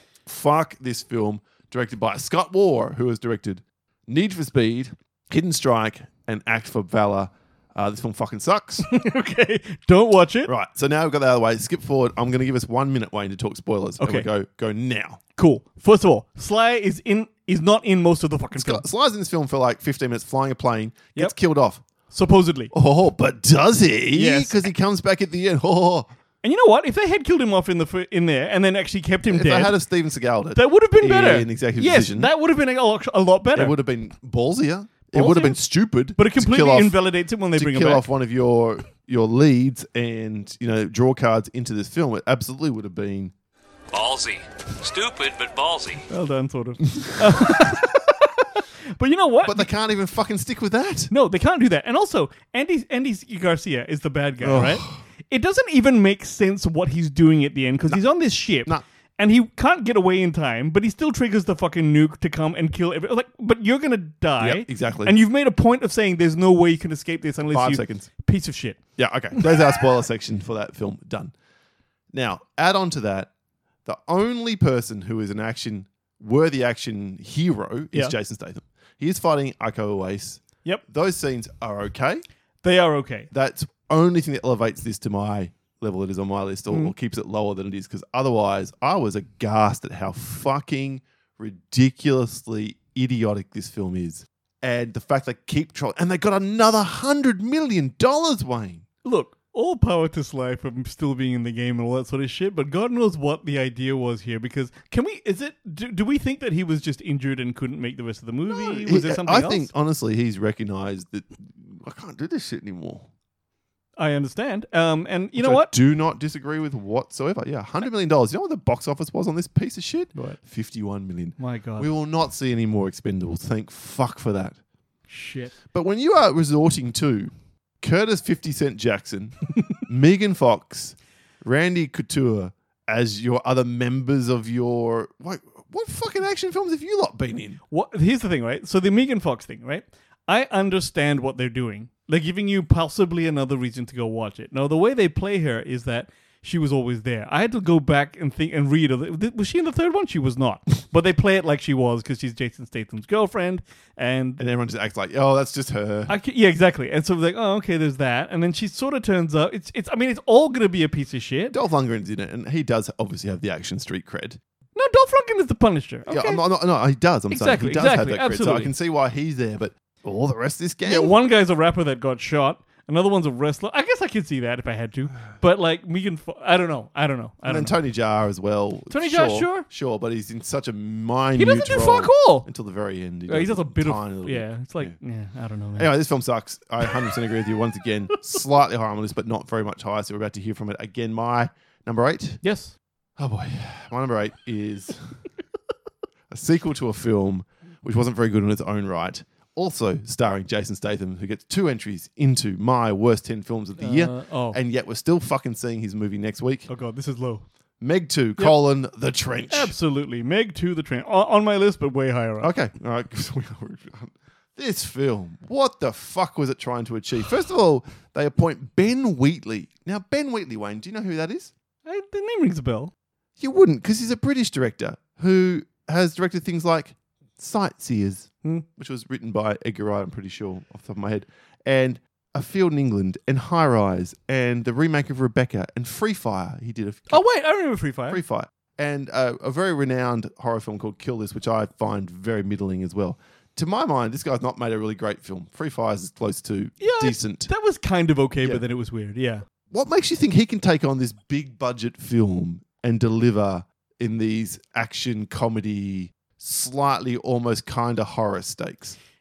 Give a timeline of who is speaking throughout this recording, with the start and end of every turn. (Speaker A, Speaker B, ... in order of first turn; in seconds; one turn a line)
Speaker A: 0.3-8.9
Speaker B: 8.8-10.5
Speaker A: 10.5-15.2
Speaker B: 14.0-14.3
Speaker B: 15.4-18.8
Speaker A: 18.6-21.8
Speaker B: 22.1-22.7
Speaker A: 22.7-26.1
Speaker B: 24.1-24.6
Speaker B: 26.4-29.8
Speaker A: 29.3-32.3
Speaker B: 30.6-33.8
Speaker A: 33.5-37.0
Speaker B: 35.1-35.6
Speaker B: 36.2-38.1
Speaker A: 37.5-43.3
Speaker C: 43.9-46.0
Speaker B: 46.1-49.7
Speaker A: 49.4-51.1
Speaker B: 51.1-68.8
Speaker A: 54.4-55.0
Speaker A: 64.4-65.2
Speaker A: 67.5-68.1
Speaker A: 69.0-71.3
Speaker A: 72.1-73.3
Speaker A: 73.9-82.2
Speaker B: 82.6-83.3
Speaker A: 83.3-98.8
Speaker B: 99.0-109.7
Speaker A: 108.5-113.1
Speaker B: 114.0-115.7
Speaker A: 115.4-124.6
Speaker B: 121.4-121.9
Speaker B: 125.1-125.5
Speaker A: 125.7-137.6
Speaker B: 137.7-154.4
Speaker A: 154.4-156.1
Speaker B: 156.1-161.6
Speaker A: 161.5-164.4
Speaker B: 164.8-166.4
Speaker A: 166.1-171.2
Speaker B: 167.3-168.7
Speaker B: 170.8-177.8
Speaker A: 177.5-185.0
Speaker B: 178.9-179.7
Speaker B: 181.4-182.5
Speaker B: 183.3-185.9
Speaker A: 185.8-192.4
Speaker B: 192.4-192.8
Speaker A: 193.2-195.2
Speaker A: 196.3-206.7
Speaker B: 203.8-204.6
Speaker B: 206.7-207.4
Speaker A: 207.8-209.7
Speaker B: 209.5-212.5
Speaker A: 212.4-221.5
Speaker B: 221.8-222.9
Speaker A: 223.4-237.2
Speaker B: 237.1-238.2
Speaker A: 238.1-247.5
Speaker B: 246.8-249.4
Speaker A: 249.7-259.0